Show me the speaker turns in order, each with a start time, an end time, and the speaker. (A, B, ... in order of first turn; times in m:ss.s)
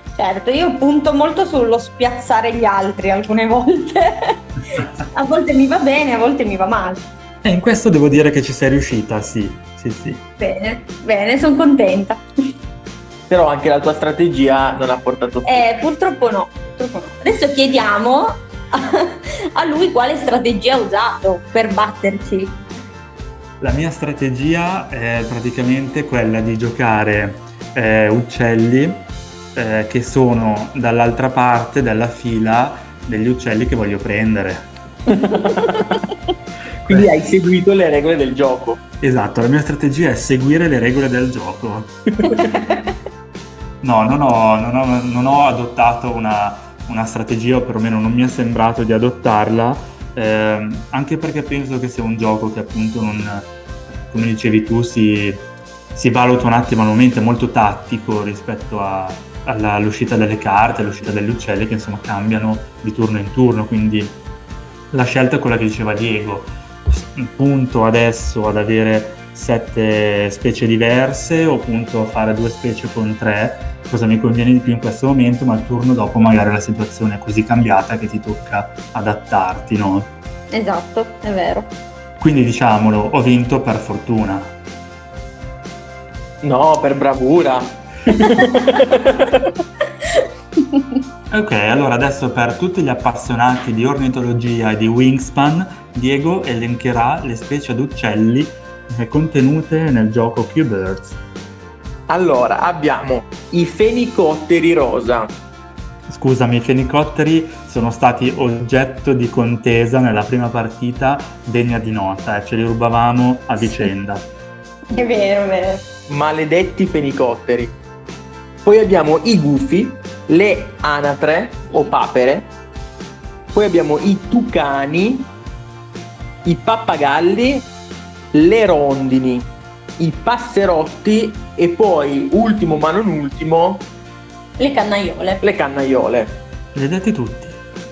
0:00.2-0:07.1 A
0:07.4-0:10.2 B
0:10.4-0:12.2 A
0:13.3-0:15.8 C
0:15.4-0:22.6 A
0:23.6-0:34.7 B
0:35.1-0:36.1 C
0:36.8-0:38.8 C
0:39.0-0:41.9 B
0:42.2-0:42.6 C
0:42.3-0:42.6 A
0:43.8-0:53.5 B
0:54.1-1:04.2 B
1:04.9-1:20.1 B
1:20.5-1:21.7 A
1:22.2-1:24.5 B
1:26.4-1:29.5 C
1:30.7-1:31.0 A
1:31.3-1:41.2 B
1:42.1-1:45.4 C
1:46.1-1:54.3 B
1:53.6-1:53.9 A
1:54.9-1:55.9 A
1:56.1-1:57.8 C
1:58.6-2:02.5 C
2:03.5-2:05.3 C
2:06.4-2:07.7 C
2:08.3-2:13.9 C
2:14.6-2:15.4 A
2:15.4-2:16.4 C
2:16.8-2:17.6 B